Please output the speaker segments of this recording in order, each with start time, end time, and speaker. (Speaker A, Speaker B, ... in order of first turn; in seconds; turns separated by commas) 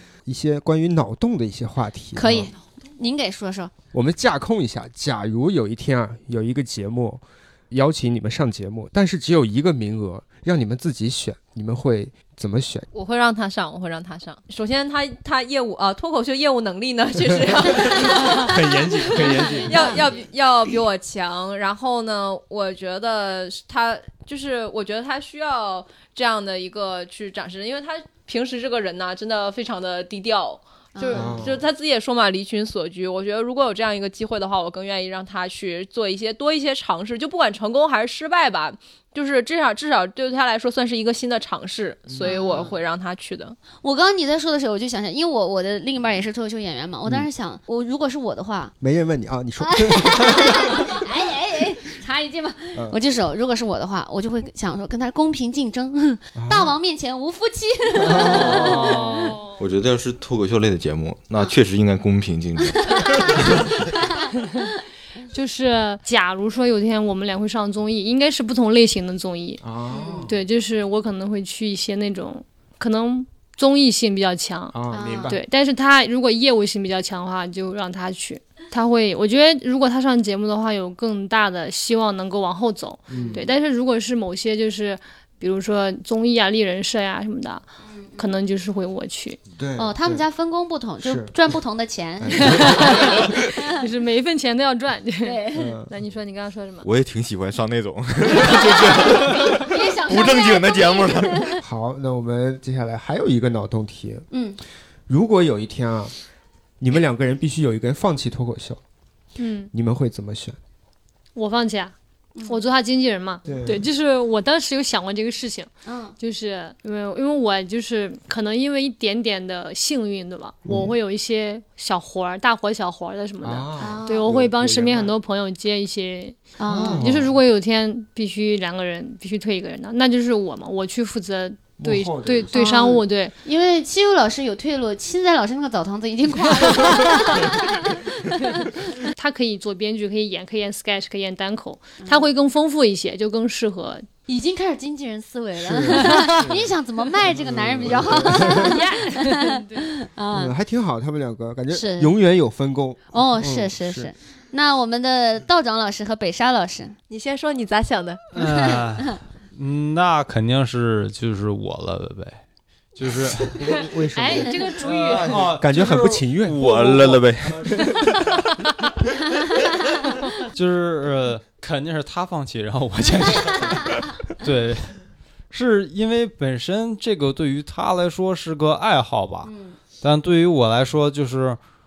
Speaker A: 0.3-2.5, Speaker B: 2.1-3.7, Speaker A: 3.9-12.9, Speaker C: 12.9-43.6, Speaker A: 17.7-20.1, Speaker B: 17.7-18.5, Speaker B: 19.1-20.1, Speaker B: 31.0-31.5, Speaker A: 31.1-31.6, Speaker A: 42.1-42.3, Speaker B: 42.2-42.8, Speaker B: 43.8-48.8, Speaker A: 48.8-50.9, Speaker B: 49.6-59.4, Speaker A: 56.4-56.7, Speaker A: 58.0-59.0, Speaker D: 58.2-59.6, Speaker E: 59.6-63.8, Speaker B: 62.8-64.3, Speaker D: 65.3-69.6, Speaker A: 69.6-70.4, Speaker B: 69.9-70.3, Speaker D: 70.3-87.6, Speaker A: 74.7-75.4, Speaker B: 74.9-75.4, Speaker A: 83.1-83.4, Speaker B: 83.1-83.5, Speaker B: 87.8-88.3, Speaker D: 88.2-89.4, Speaker A: 89.6-90.2, Speaker B: 89.8-93.7, Speaker A: 91.0-91.3, Speaker A: 92.2-93.3, Speaker D: 92.5-96.9, Speaker B: 95.2-95.8, Speaker A: 95.5-95.9, Speaker E: 96.8-101.6, Speaker B: 98.6-101.6, Speaker A: 101.6-104.3, Speaker B: 104.3-104.6, Speaker A: 105.1-106.1, Speaker A: 106.8-108.8, Speaker D: 109.4-109.7, Speaker A: 109.7-110.6, Speaker D: 111.3-111.9, Speaker D: 112.5-133.3, Speaker A: 113.5-113.8, Speaker B: 115.8-116.2, Speaker A: 120.7-120.9, Speaker A: 123.4-125.1, Speaker B: 123.8-124.3, Speaker B: 126.6-127.0, Speaker A: 126.7-127.4, Speaker A: 131.8-132.5, Speaker B: 132.5-138.8, Speaker D: 139.0-144.1, Speaker B: 142.0-142.3, Speaker B: 144.3-150.5, Speaker A: 145.6-146.7, Speaker D: 145.9-146.3, Speaker A: 147.3-148.8, Speaker D: 148.4-149.9, Speaker A: 150.3-154.1, Speaker B: 151.7-152.2, Speaker B: 153.1-157.0, Speaker C: 157.1-158.2, Speaker F: 158.3-162.4, Speaker B: 158.4-159.1, Speaker F: 163.0-163.6, Speaker A: 163.6-164.6, Speaker D: 164.2-165.3, Speaker F: 164.8-167.8, Speaker A: 165.3-166.6, Speaker E: 166.4-167.9, Speaker F: 170.4-175.0, Speaker B: 173.6-174.0, Speaker F: 175.5-181.6, Speaker B: 179.4-179.8